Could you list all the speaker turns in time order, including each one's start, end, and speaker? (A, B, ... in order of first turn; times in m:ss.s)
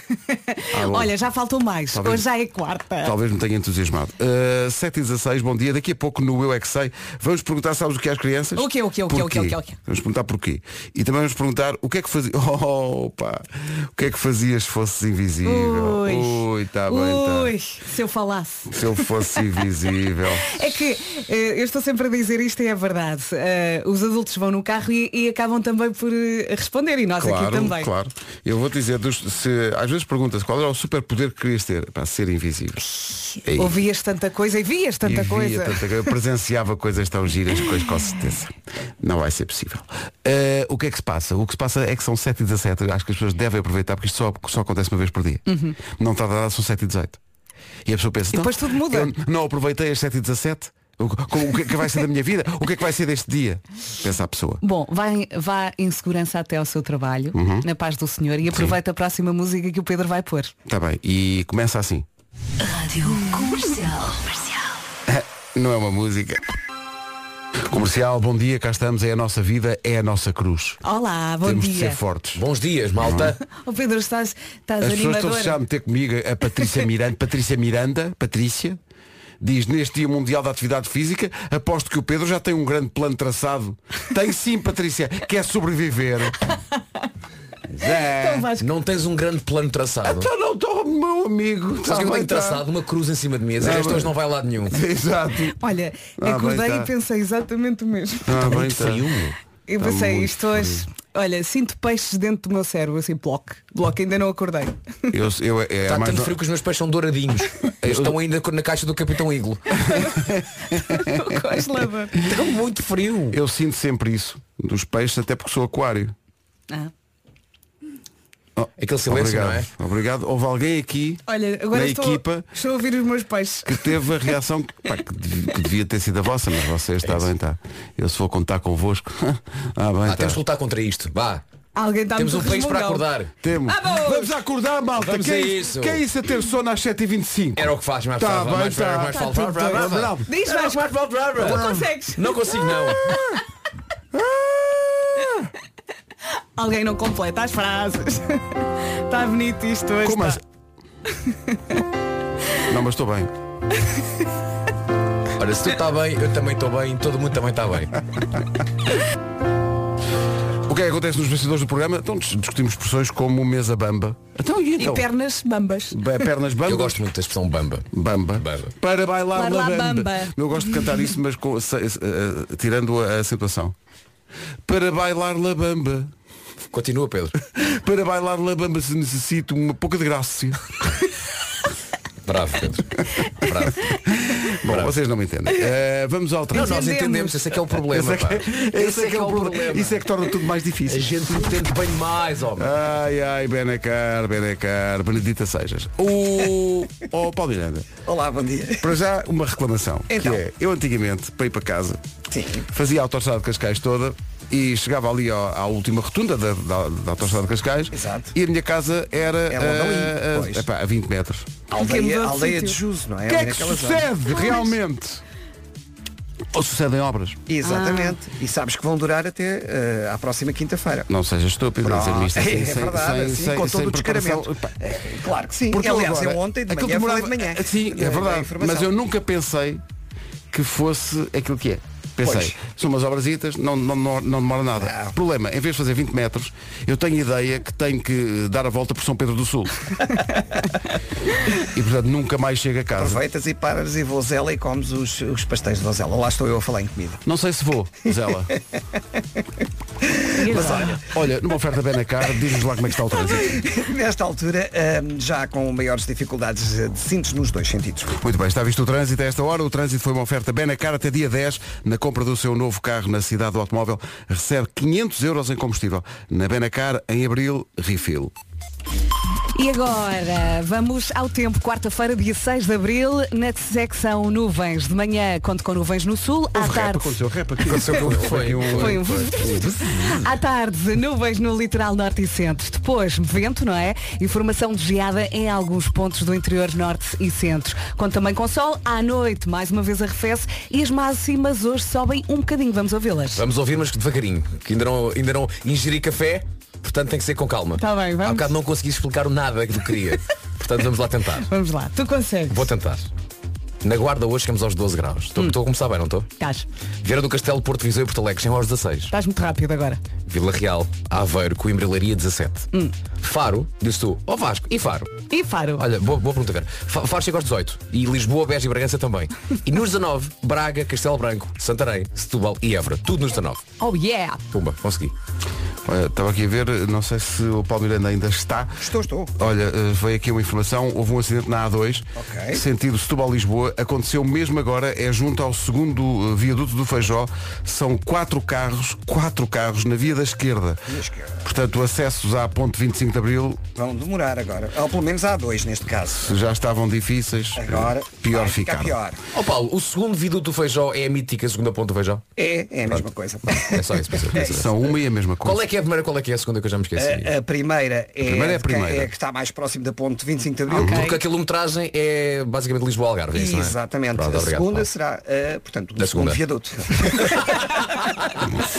0:00.3-0:03.1 A
0:00.7-0:01.1 B
0:01.9-0:02.3 B
0:03.0-0:17.5 B
0:08.6-0:09.8 A
0:15.4-0:19.4 A
0:18.7-0:20.8 B
0:20.5-0:27.9 A
0:27.2-0:33.8 B
0:33.6-0:35.8 A
0:35.0-0:47.2 B
0:45.5-0:45.8 A
0:47.8-0:54.6 B
0:48.3-0:49.1 A
0:54.6-1:00.5 A
0:57.3-0:57.6 B
1:00.6-1:02.0 B
1:02.6-1:04.7 C
1:05.1-1:06.4 B
1:07.7-1:10.8 B
1:10.8-1:12.0 A
1:11.4-1:12.4 B
1:12.3-1:13.4 D
1:13.0-1:13.4 B
1:13.4-1:15.6 A
1:14.8-1:18.8 B
1:19.4-1:26.4 B
1:27.8-1:28.5 B
1:27.8-1:28.6 A
1:28.6-1:30.3 D
1:30.0-1:32.6 B
1:31.8-1:34.8 D
1:33.6-1:34.1 B
1:34.6-1:35.6 B
1:35.6-1:38.4 A
1:36.2-1:36.9 B
1:38.2-1:39.1 B
1:38.4-1:39.4 D
1:39.7-1:45.1 A
1:39.8-1:40.8 B
1:45.1-1:46.4 B
1:45.8-1:49.7 D
1:47.8-1:48.2 B
1:49.9-1:51.6 B
1:50.7-1:52.2 A
1:52.2-1:53.4 D
1:53.3-1:56.1 B
1:58.6-2:02.5 B
1:58.8-1:59.7 D
2:01.3-2:04.0 A
2:03.6-2:10.4 B
2:07.0-2:07.3 D
2:10.0-2:11.4 D
2:11.8-2:13.1 A
2:12.2-2:13.3 D
2:13.4-2:21.8 B
2:13.6-2:14.3 A
2:15.0-2:16.0 D
2:17.6-2:23.1 D
2:19.2-2:22.3 A
2:23.0-2:23.4 B
2:24.1-2:25.5 B
2:26.6-2:30.4 A
2:30.0-2:30.4 B
2:31.3-2:31.8 A
2:32.6-2:33.3 B
2:35.4-2:38.0 D
2:40.6-2:45.1 B
2:44.8-2:46.0 A
2:45.9-2:47.0 B
2:46.6-2:47.9 D
2:47.9-2:53.7 B
2:48.4-2:48.7 D
2:49.3-2:50.4 A
2:54.6-2:56.1 B
2:56.7-2:57.4 D
2:57.5-3:00.7 B
3:02.2-3:04.0 D
3:03.8-3:06.8 B
3:04.6-3:04.9 D
3:06.5-3:07.4 A
3:06.5-3:10.0 D
3:07.9-3:11.6 B
3:10.9-3:12.7 D
3:12.6-3:17.9 B
3:18.0-3:18.9 E
3:18.8-3:22.0 B
3:20.1-3:20.4 E
3:22.3-3:22.7 E
3:22.7-3:31.6 B
3:27.9-3:28.3 E
3:29.5-3:30.6 E
3:31.7-3:34.1 E
3:31.7-3:32.8 A
3:33.2-3:35.2 B
3:36.5-3:37.4 B
3:37.5-3:41.1 E
3:37.6-3:38.2 A
3:41.1-3:44.7 B
3:41.8-3:48.9 E
3:45.7-3:49.8 B
3:50.5-3:59.9 B
3:52.2-3:52.6 E
3:54.8-3:55.1 E
4:01.6-4:03.2 B
4:02.9-4:07.2 E
4:07.2-4:08.5 B
4:10.0-4:11.0 E
4:10.3-4:11.0 A
4:10.5-4:13.6 B
4:13.3-4:18.2 E
4:18.1-4:28.3 B
4:29.5-4:37.1 A
4:36.5-4:40.1 B
4:37.6-4:39.4 D
4:38.7-4:53.4 A
4:53.3-5:01.5 D
4:57.8-4:58.5 A
5:01.5-5:02.7 A
5:02.5-5:03.1 D
5:03.8-5:06.3 D
5:06.4-5:06.6 A
5:07.0-5:09.1 D
5:09.1-5:10.0 A
5:10.3-5:12.7 D
5:13.2-5:15.1 D
5:15.3-5:15.8 A
5:15.8-5:23.6 D
5:23.8-5:24.4 A
5:24.5-5:25.1 D
5:25.8-5:40.9 B
5:28.8-5:29.3 E
5:32.2-5:32.6 E
5:40.9-5:41.4 E
5:41.4-5:43.6 B
5:43.8-5:46.3 E
5:46.2-5:49.0 B
5:47.6-5:49.2 E
5:49.3-5:52.2 D
5:52.4-5:54.7 E
5:53.6-5:54.7 D
5:54.3-5:55.6 B
5:55.4-5:57.3 D
5:57.0-6:01.2 E
5:58.2-5:59.1 B
6:00.7-6:01.0 B
6:00.7-6:04.9 D
6:03.3-6:07.8 E
6:06.0-6:06.4 D